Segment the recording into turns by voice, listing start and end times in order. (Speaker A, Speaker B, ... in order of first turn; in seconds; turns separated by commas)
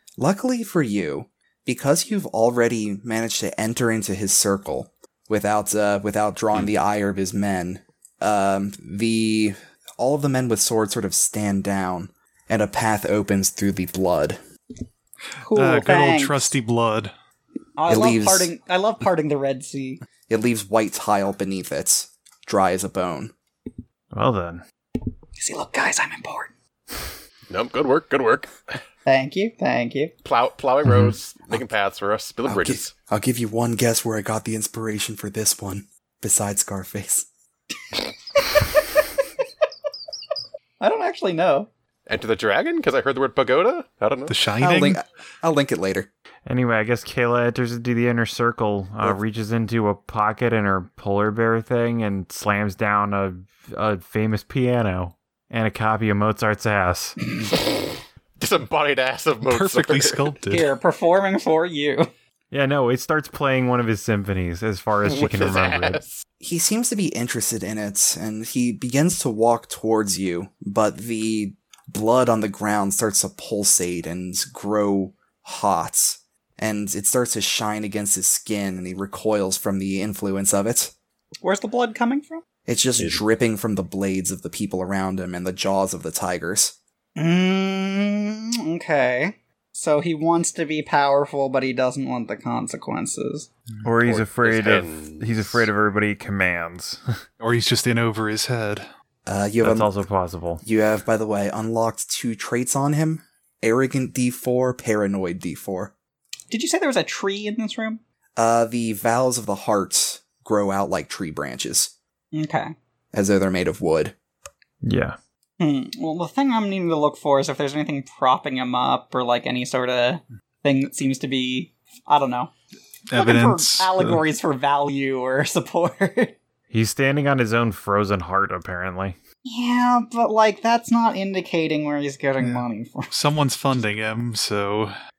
Speaker A: 0.2-14.4, Speaker B: 15.4-17.1, Speaker C: 15.4-16.5, Speaker C: 17.8-20.0, Speaker A: 17.9-18.5, Speaker A: 20.3-23.3, Speaker D: 24.1-24.6, Speaker C: 25.4-26.5, Speaker E: 27.5-28.8, Speaker C: 29.1-30.1, Speaker E: 30.2-32.9, Speaker A: 32.5-37.3, Speaker C: 40.8-41.7, Speaker E: 42.1-44.4, Speaker B: 44.3-45.0, Speaker A: 44.6-46.1, Speaker D: 46.5-57.2, Speaker E: 57.5-60.4, Speaker B: 59.5-60.7, Speaker C: 60.5-62.1, Speaker D: 62.5-66.0, Speaker E: 65.0-66.2, Speaker A: 66.4-80.9, Speaker C: 81.4-82.4, Speaker A: 82.7-86.8, Speaker C: 87.2-93.5, Speaker D: 93.8-97.0, Speaker E: 94.0-95.6, Speaker B: 97.4-98.8, Speaker A: 99.3-99.9, Speaker D: 99.6-100.6, Speaker A: 100.6-105.9, Speaker C: 106.5-108.0, Speaker A: 108.4-111.9, Speaker C: 112.3-112.7, Speaker A: 113.1-114.1, Speaker D: 114.8-115.2, Speaker C: 115.6-122.5, Speaker B: 123.1-124.2, Speaker C: 123.1-126.3, Speaker D: 126.7-129.2, Speaker C: 129.4-133.1, Speaker B: 132.4-134.9